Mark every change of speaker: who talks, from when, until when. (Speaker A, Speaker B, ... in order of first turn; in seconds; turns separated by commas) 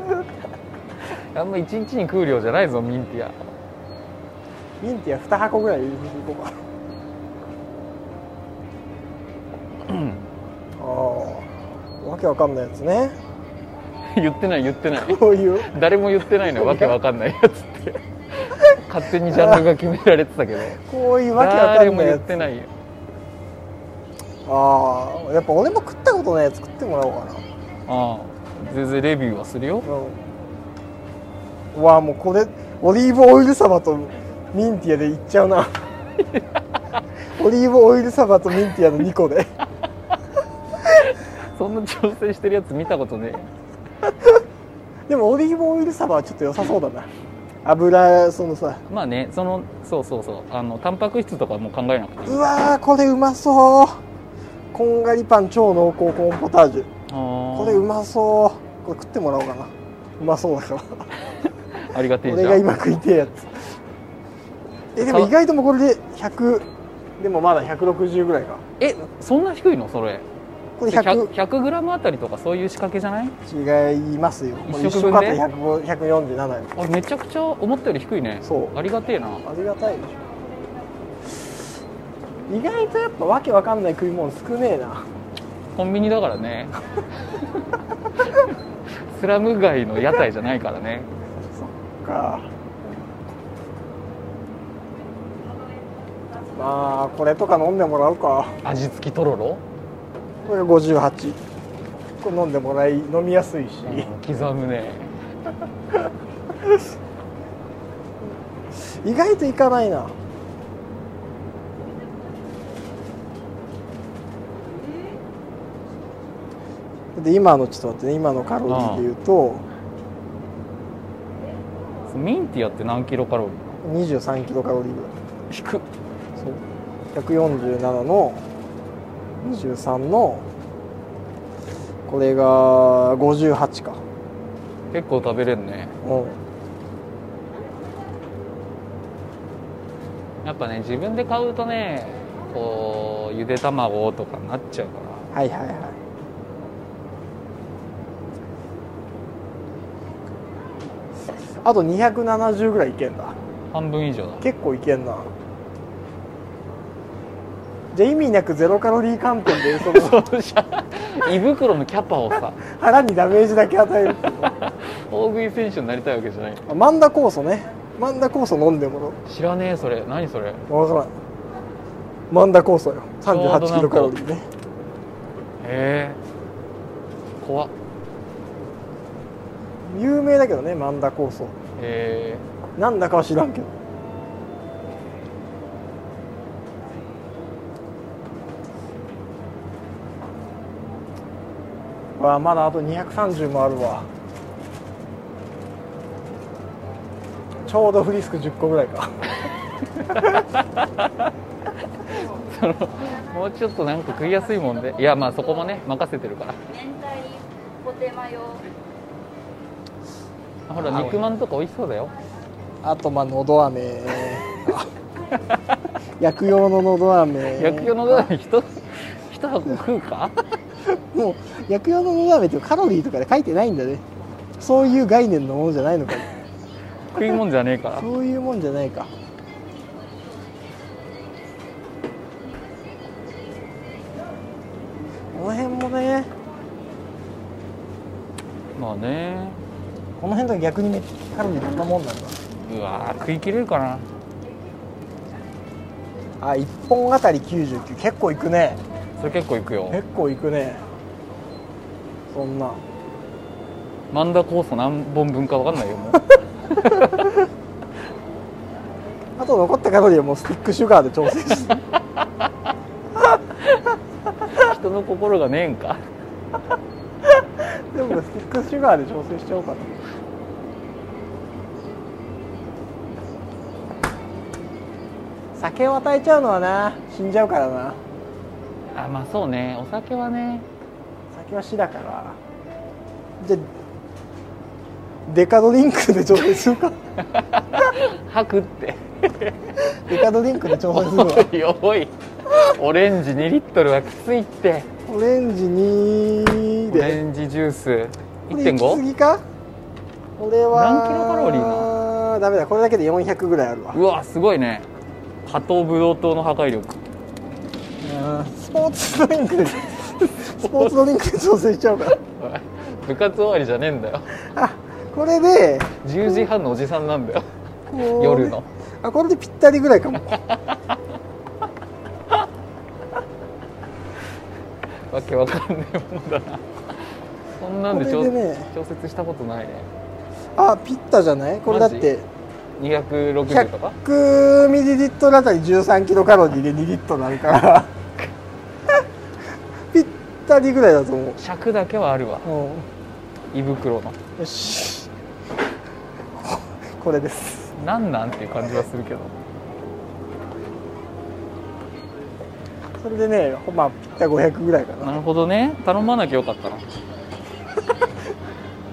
Speaker A: 1.1-3.4, Speaker B: 4.8-6.6, Speaker A: 9.9-10.3, Speaker B: 10.8-13.2, Speaker A: 14.1-20.8, Speaker B: 14.9-15.7, Speaker B: 16.4-17.0, Speaker B: 19.3-19.6, Speaker B: 20.8-22.4, Speaker A: 21.3-22.7, Speaker B: 24.5-27.4, Speaker A: 27.9-29.9, Speaker B: 29.8-30.2, Speaker B: 31.7-35.8, Speaker B: 37.4-39.5, Speaker A: 40.9-43.5, Speaker B: 45.1-47.1, Speaker B: 47.6-48.8, Speaker A: 48.9-52.5, Speaker B: 52.3-54.0, Speaker B: 54.7-56.9, Speaker A: 57.1-57.9, Speaker B: 57.5-61.1, Speaker A: 61.7-62.6, Speaker B: 62.2-63.7, Speaker B: 65.0-68.6, Speaker A: 65.0-65.3, Speaker A: 68.8-70.3, Speaker B: 70.8-71.3, Speaker A: 70.9-73.4, Speaker B: 73.5-76.7, Speaker A: 74.7-75.4, Speaker A: 76.8-79.5, Speaker B: 78.4-78.8, Speaker B: 79.4-80.2, Speaker B: 82.5-85.1, Speaker A: 85.8-86.8, Speaker A: 89.1-91.1, Speaker B: 91.4-93.0, Speaker B: 96.5-98.6, Speaker A: 98.6-99.6, Speaker B: 100.5-101.4, Speaker B: 102.2-104.5, Speaker A: 103.8-105.1, Speaker B: 108.2-110.2, Speaker B: 117.2-119.7, Speaker A: 118.7-119.1, Speaker A: 122.1-123.7, Speaker B: 123.8-125.2, Speaker A: 125.5-125.8, Speaker B: 126.4-126.6, Speaker B: 127.1-128.4, Speaker B: 129.4-130.5, Speaker B: 132.1-134.0, Speaker A: 134.9-136.0, Speaker B: 136.0-136.4, Speaker A: 140.4-145.3, Speaker B: 145.3-146.0, Speaker B: 151.6-153.4, Speaker A: 153.7-154.4, Speaker B: 154.4-155.3, Speaker B: 157.9-160.3, Speaker A: 159.6-162.6, Speaker B: 162.6-164.5, Speaker A: 164.6-166.6, Speaker B: 166.7-169.2, Speaker A: 169.3-170.6, Speaker B: 170.7-171.1, Speaker B: 172.3-174.5, Speaker A: 173.3-174.2, Speaker A: 175.6-176.2, Speaker A: 177.4-177.7, Speaker B: 179.8-181.6, Speaker A: 181.8-182.4, Speaker B: 182.8-183.7, Speaker B: 192.2-194.1, Speaker B: 197.7-199.3, Speaker A: 200.0-201.3, Speaker A: 201.9-206.6, Speaker C: 206.8-208.6, Speaker A: 210.7-212.1, Speaker B: 210.8-211.3, Speaker B: 212.8-214.9, Speaker B: 216.2-218.3, Speaker A: 217.6-220.4, Speaker B: 220.8-224.0, Speaker B: 224.6-226.4, Speaker A: 227.1-228.1, Speaker B: 227.9-229.1, Speaker C: 229.8-231.8, Speaker C: 232.4-234.1, Speaker B: 235.3-236.3, Speaker A: 238.8-239.6, Speaker B: 240.2-242.4, Speaker A: 242.6-244.1, Speaker B: 246.4-248.8, Speaker A: 249.2-250.0, Speaker B: 249.9-250.8, Speaker B: 252.3-252.8, Speaker A: 254.1-257.3, Speaker B: 259.4-261.8, Speaker A: 263.6-263.9, Speaker A: 264.4-266.0, Speaker B: 267.2-270.0, Speaker B: 275.6-278.0, Speaker A: 278.9-280.7, Speaker B: 281.3-282.4, Speaker B: 283.4-283.7, Speaker B: 285.3-287.0, Speaker A: 287.3-290.0, Speaker B: 289.9-291.5, Speaker A: 290.9-294.9, Speaker B: 295.1-297.2, Speaker A: 296.9-299.0, Speaker B: 298.5-299.4, Speaker B: 300.4-304.0, Speaker A: 300.7-302.0, Speaker A: 303.9-304.9, Speaker A: 305.4-307.0, Speaker B: 308.0-312.2, Speaker A: 310.6-310.9, Speaker A: 312.3-314.4, Speaker B: 314.4-316.0, Speaker A: 316.0-317.5, Speaker B: 317.9-320.4, Speaker A: 318.1-318.7, Speaker A: 320.4-320.8, Speaker A: 325.1-326.8, Speaker A: 327.6-329.9, Speaker B: 327.9-328.7, Speaker B: 330.6-332.3, Speaker A: 331.7-332.1, Speaker A: 332.8-334.0, Speaker B: 333.5-338.0, Speaker B: 339.9-341.4, Speaker A: 341.4-342.5, Speaker B: 342.4-342.9, Speaker A: 343.5-344.2, Speaker B: 344.4-345.1, Speaker B: 346.4-347.8, Speaker A: 347.8-349.3, Speaker B: 353.0-355.2, Speaker A: 355.0-356.9, Speaker C: 357.2-358.3